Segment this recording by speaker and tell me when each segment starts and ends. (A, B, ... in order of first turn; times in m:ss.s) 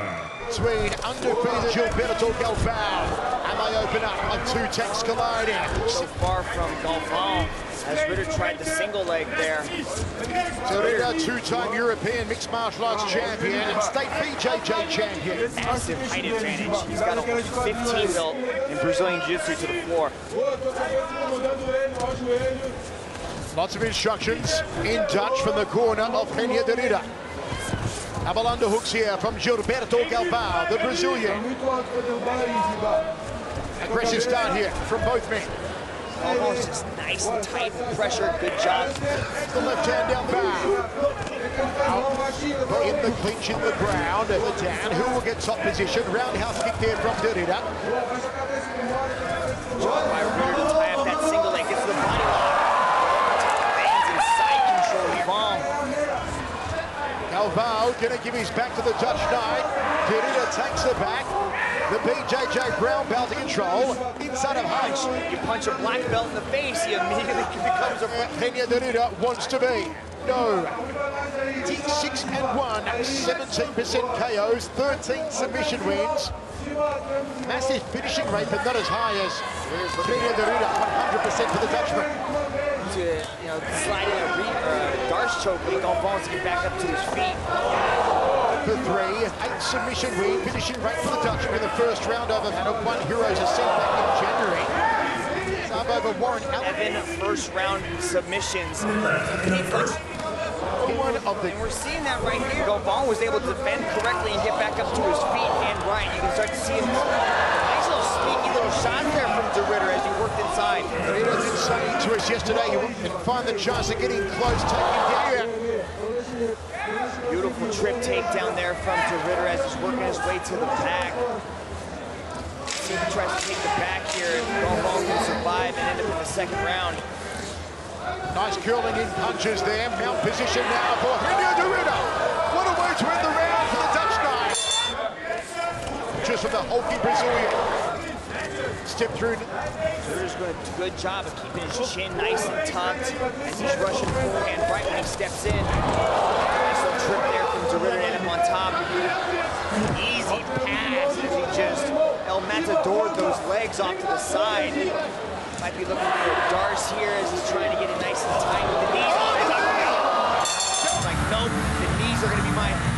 0:00.4-0:06.0 A
0:05.8-0:09.7 B
0:10.6-0:15.5 A
0:15.5-0:20.2 B
0:23.5-0:27.1 A
0:28.2-0:31.5 A
0:33.8-0:35.6 A
0:36.2-0:39.2 B
0:39.3-0:40.8 A
0:41.7-0:47.7 A
0:49.7-0:55.9 B
0:57.3-1:01.3 A
1:01.9-1:05.1 A
1:05.0-1:08.3 B
1:08.1-1:10.9 A
1:11.5-1:16.3 A
1:17.4-1:19.5 A
1:19.6-1:20.5 B
1:20.0-1:22.1 A
1:22.8-1:27.4 B
1:28.6-1:34.7 A
1:35.5-1:36.7 A
1:36.6-1:40.1 B
1:40.8-1:41.5 A
1:41.2-1:51.0 B
1:51.0-1:55.6 A
1:57.2-2:01.3 B
2:02.8-2:07.0 B
2:08.3-2:14.7 A
2:16.2-2:17.6 A
2:18.8-2:19.5 A
2:20.0-2:25.8 B
2:26.6-2:28.9 B
2:29.9-2:35.0 B
2:35.6-2:40.1 B
2:40.8-2:42.8 B